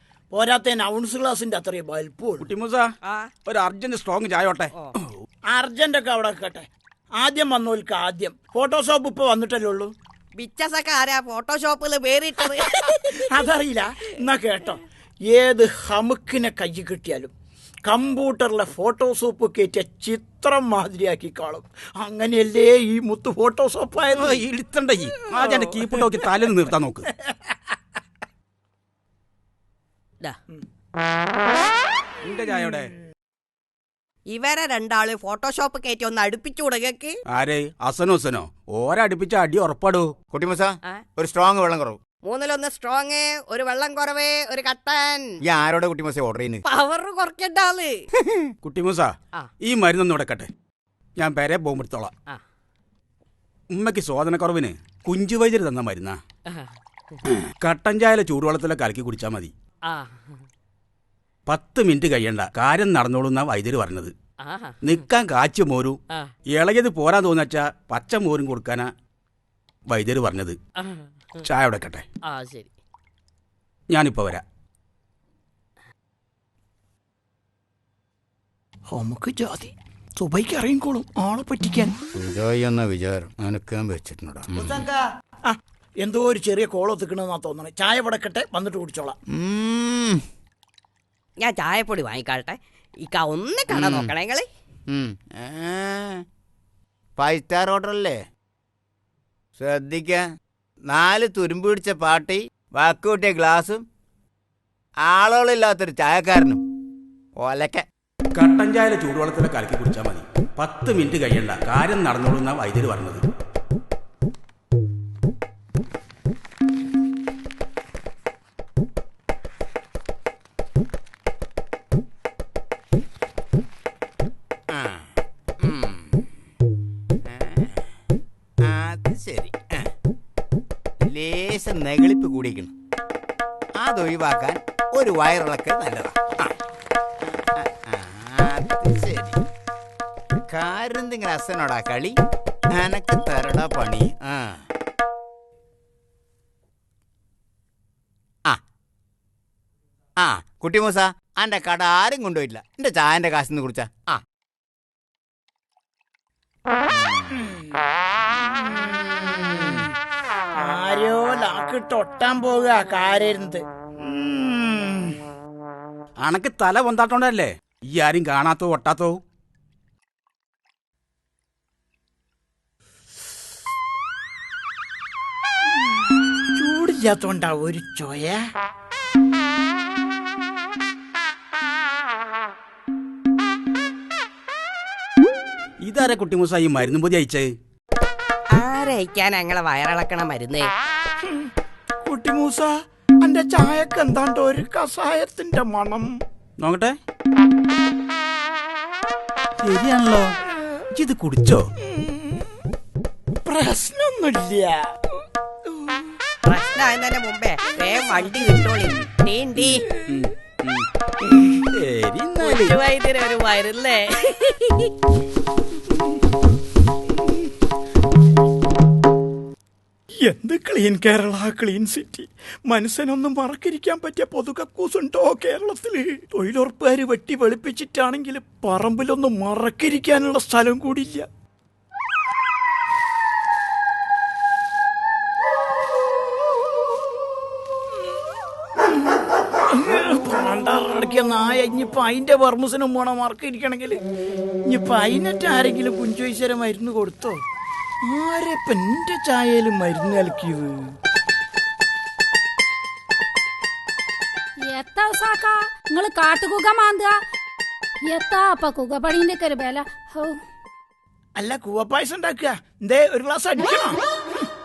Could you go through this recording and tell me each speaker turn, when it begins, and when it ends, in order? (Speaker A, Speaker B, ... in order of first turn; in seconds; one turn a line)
Speaker A: 0.3-2.5
Speaker B: 2.4-2.8
Speaker C: 3.0-3.3
Speaker B: 3.5-5.1
Speaker A: 5.5-6.7
Speaker A: 7.2-9.9
Speaker C: 10.4-13.4
Speaker A: 13.2-17.3
Speaker A: 17.9-24.4
Speaker B: 24.1-27.1
Speaker A: 25.3-26.3
Speaker A: 27.2-27.6
Speaker B: 32.2-32.9
Speaker C: 34.3-37.2
Speaker B: 37.3-40.1
Speaker D: 40.3-42.0
Speaker C: 42.2-45.4
Speaker D: 45.5-46.6
Speaker C: 46.6-48.0
Speaker D: 48.2-48.5
Speaker B: 48.6-49.1
Speaker B: 49.6-50.5
Speaker B: 51.2-52.1
Speaker B: 53.7-56.2
Speaker C: 56.5-57.2
Speaker B: 57.4-59.5
Speaker C: 59.9-60.4
Speaker B: 61.5-64.1
Speaker C: 64.4-65.0
Speaker B: 64.8-66.0
Speaker B: 66.5-68.9
Speaker B: 69.9-70.6
Speaker C: 70.8-71.5
Speaker B: 71.4-72.0
Speaker C: 72.2-72.7
Speaker B: 73.9-74.4
Speaker A: 78.9-81.9
Speaker D: 82.1-84.8
Speaker A: 84.5-84.8
Speaker A: 85.5-89.2
Speaker D: 89.3-90.2
Speaker C: 91.4-94.5
Speaker D: 93.7-94.1
Speaker D: 94.9-96.2
Speaker D: 97.2-98.2
Speaker D: 99.6-100.2
Speaker D: 100.9-103.8
Speaker D: 105.0-106.6
Speaker D: 107.4-107.8
Speaker B: 108.3-113.2
Speaker D: 124.7-125.1
Speaker D: 125.6-126.2
Speaker D: 127.3-127.8
Speaker D: 128.6-129.9
Speaker D: 131.0-132.7
Speaker D: 133.8-136.5
Speaker D: 137.4-139.4
Speaker D: 140.5-142.2
Speaker D: 142.7-144.6
Speaker D: 150.2-154.2
Speaker D: 156.9-157.4
Speaker A: 157.3-157.7
Speaker A: 158.4-159.9
Speaker A: 160.6-165.2
Speaker B: 166.2-169.2
Speaker A: 176.6-178.4
Speaker B: 185.8-187.5
Speaker C: 188.5-190.7
Speaker A: 191.2-191.5
Speaker A: 192.0-192.7
Speaker A: 193.2-196.1
Speaker B: 196.6-196.9
Speaker B: 199.6-200.3
Speaker B: 200.9-201.6
Speaker A: 201.8-202.6
Speaker A: 203.4-204.8
Speaker A: 205.7-206.1
Speaker C: 206.4-209.8
Speaker B: 209.6-210.8
Speaker B: 211.7-212.8
Speaker C: 212.4-214.9
Speaker A: 220.2-231.3
Speaker A: 239.7-244.0
Speaker A: 244.7-247.4
Speaker A: 248.0-250.7
Speaker E: 254.7-257.1
Speaker E: 258.1-260.4
Speaker A: 261.4-264.0